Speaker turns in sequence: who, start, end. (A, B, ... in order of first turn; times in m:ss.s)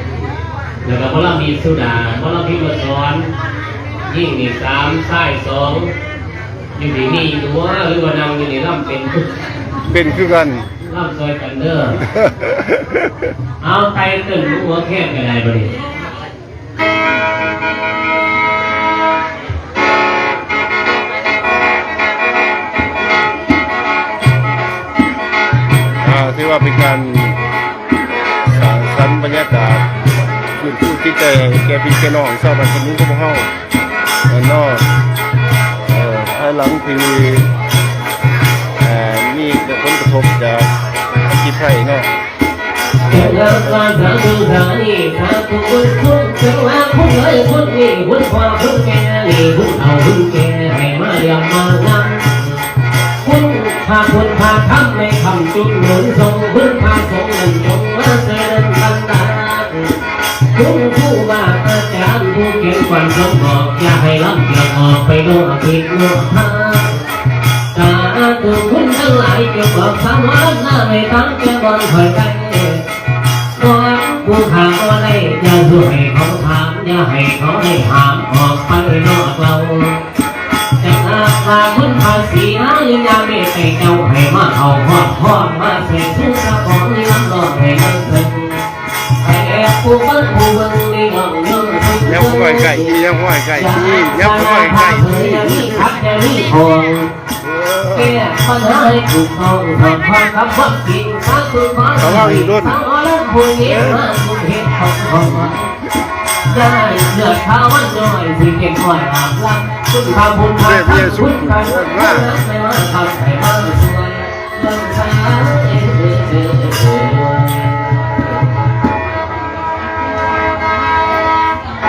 0:00.8-0:03.3 A
0:04.1-0:05.9 A
0:06.8-0:09.3 A
0:09.9-0:10.7 B
0:10.8-0:12.1 A
0:12.2-0:12.6 B
0:13.6-0:15.8 A
0:26.0-0:27.4 B
0:28.5-0:29.8 B
0:30.6-0:33.5 B
0:34.3-0:34.8 B
0:35.9-0:37.5 B
0:38.8-0:42.1 B
0:43.1-0:52.5 A
0:53.2-0:59.9 A
1:00.5-1:07.0 A
1:07.7-1:12.8 A
1:13.5-1:20.0 A
1:20.8-1:28.6 A
1:29.2-1:32.9 A
1:32.0-1:35.7 B
1:33.6-1:37.1 A
1:37.4-1:38.2 B
1:37.9-1:45.6 A
1:42.0-1:42.8 B
1:46.4-1:58.6 A
1:50.6-1:52.3 B